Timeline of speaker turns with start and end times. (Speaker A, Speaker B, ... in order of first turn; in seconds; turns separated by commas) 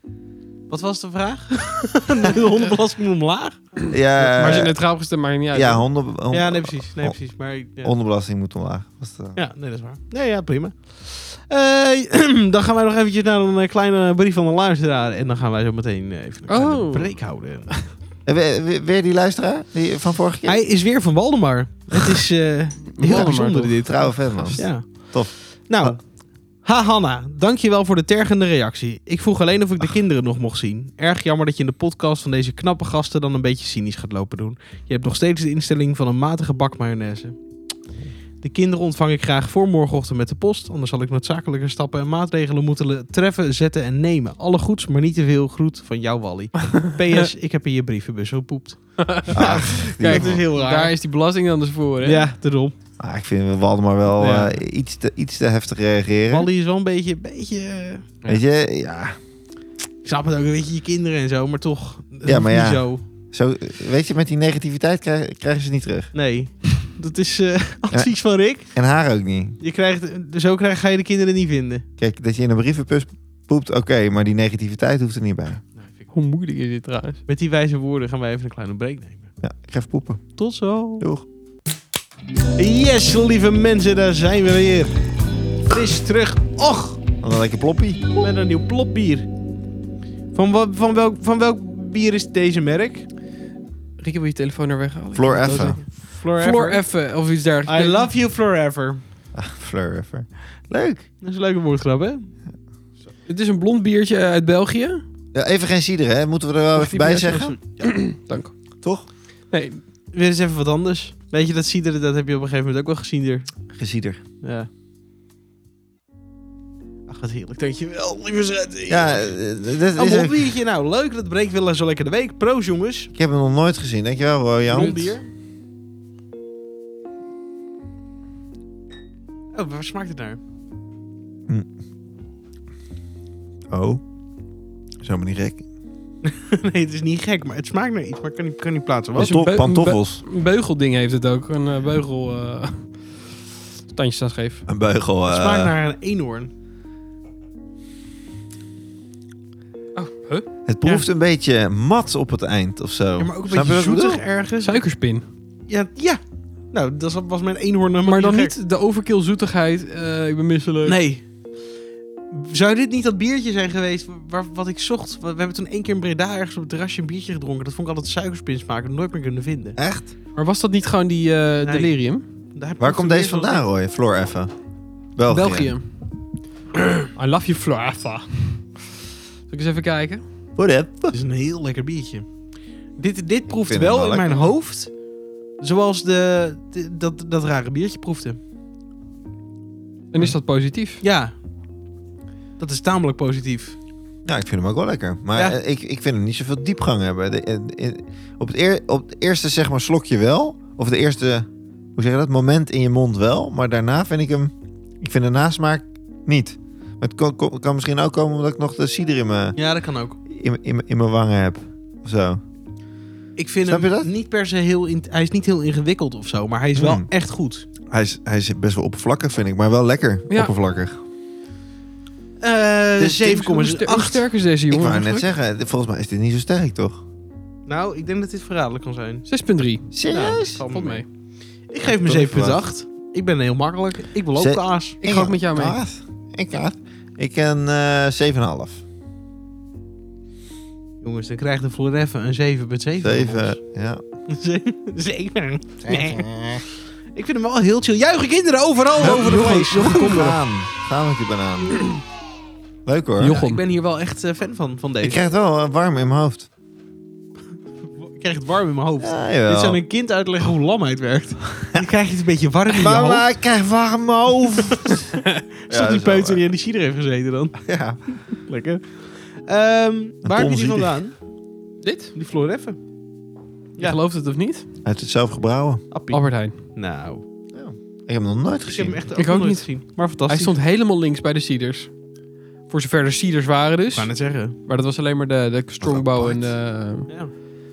Speaker A: 0.7-4.6, Speaker B: 3.9-4.8, Speaker C: 4.3-5.8, Speaker B: 5.5-7.2, Speaker A: 6.3-7.9, Speaker B: 7.8-9.4, Speaker A: 9.3-17.9, Speaker C: 16.5-17.2, Speaker B: 18.3-20.6, Speaker A: 20.5-37.4, Speaker C: 23.0-24.6, Speaker B: 23.1-26.0, Speaker A: 38.4-50.9, Speaker C: 49.0-52.3, Speaker B: 49.3-50.4, Speaker A: 52.0-52.8, Speaker B: 53.0-56.5, Speaker C: 54.2-54.6, Speaker A: 56.3-58.1, Speaker B: 58.3-59.2, Speaker A: 60.0-63.0, Speaker B: 62.2-66.1, Speaker A: 66.1-68.7, Speaker B: 68.7-69.6, Speaker A: 69.6-71.8, Speaker B: 72.0-75.6, Speaker A: 75.8-76.1, Speaker C: 76.1-77.2, Speaker A: 77.3-79.3, Speaker B: 79.4-80.4, Speaker A: 80.4-81.1, Speaker B: 81.0-81.3, Speaker A: 82.6-85.0, Speaker A: 85.7-87.0, Speaker B: 87.2-88.2, Speaker A: 88.2-89.3, Speaker A: 90.3-93.1, Speaker C: 94.0-98.1, Speaker B: 95.2-95.8, Speaker A: 95.8-96.8, Speaker A: 97.7-99.0, Speaker B: 99.3-101.1, Speaker A: 101.2-102.3, Speaker C: 103.3-105.0, Speaker B: 105.3-108.0, Speaker C: 106.8-108.6, Speaker B: 108.8-109.1, Speaker C: 109.5-109.8, Speaker A: 110.1-113.5, Speaker B: 113.7-114.2, Speaker A: 114.4-114.7, Speaker A: 117.1-119.4, Speaker B: 118.9-120.4, Speaker A: 119.9-123.1, Speaker B: 123.2-125.2, Speaker A: 124.7-125.3, Speaker A: 129.5-130.4, Speaker B: 133.7-134.0, Speaker B: 135.0-135.7, Speaker A: 136.2-139.3, Speaker B: 139.2-140.2, Speaker C: 139.2-144.7, Speaker B: 144.7-145.7, Speaker A: 145.3-146.5, Speaker C: 149.9-150.5, Speaker B: 150.7-154.2, Speaker A: 153.2-154.8, Speaker C: 154.6-155.2, Speaker A: 155.7-156.2, Speaker A: 156.7-158.5, Speaker C: 158.0-161.0, Speaker A: 160.9-161.2, Speaker A: 162.3-169.8, Speaker B: 169.8-170.1, Speaker C: 170.3-172.2, Speaker A: 171.6-171.9, Speaker A: 172.6-173.7, Speaker B: 172.8-174.5, Speaker B: 175.2-175.7, Speaker C: 175.3-175.9, Speaker C: 177.2-178.9, Speaker C: 179.5-180.2, Speaker B: 180.6-181.2, Speaker A: 181.1-182.3, Speaker A: 183.0-184.9, Speaker B: 183.6-184.5, Speaker A: 185.6-188.4, Speaker C: 190.1-191.0, Speaker A: 191.0-191.3, Speaker A: 192.6-193.8, Speaker B: 194.2-209.6, Speaker A: 209.6-210.2, Speaker B: 210.3-212.4, Speaker A: 213.4-217.7, Speaker B: 213.7-214.1, Speaker B: 216.8-217.1, Speaker B: 217.9-221.0, Speaker A: 222.4-224.2, Speaker B: 223.0-223.3, Speaker C: 223.2-225.3, Speaker B: 224.7-227.0, Speaker A: 227.7-229.3, Speaker C: 229.3-229.9, Speaker B: 229.9-230.6, Speaker A: 230.1-231.1, Speaker C: 230.6-231.1, Speaker A: 231.7-235.0, Speaker B: 231.8-232.6, Speaker B: 234.4-238.8, Speaker C: 235.0-235.8, Speaker A: 241.0-243.6, Speaker B: 243.0-244.0, Speaker A: 244.3-246.3, Speaker B: 245.8-246.7, Speaker A: 247.1-250.4, Speaker B: 249.0-251.9, Speaker B: 252.9-253.4, Speaker C: 253.2-253.6, Speaker A: 253.2-255.2, Speaker B: 255.0-256.5, Speaker A: 258.0-263.3, Speaker B: 259.0-259.8, Speaker B: 262.7-265.1, Speaker A: 264.8-265.1, Speaker A: 265.6-271.1, Speaker B: 265.7-266.4, Speaker B: 267.6-268.2, Speaker B: 270.2-271.0, Speaker C: 271.8-272.1, Speaker A: 272.1-272.8, Speaker C: 273.8-274.6, Speaker B: 274.8-275.8, Speaker A: 275.9-277.2, Speaker C: 276.1-276.6, Speaker B: 277.5-279.0, Speaker A: 278.6-280.6, Speaker C: 279.2-281.9, Speaker C: 282.7-287.1, Speaker A: 283.9-284.6, Speaker B: 285.8-286.6, Speaker A: 287.1-287.3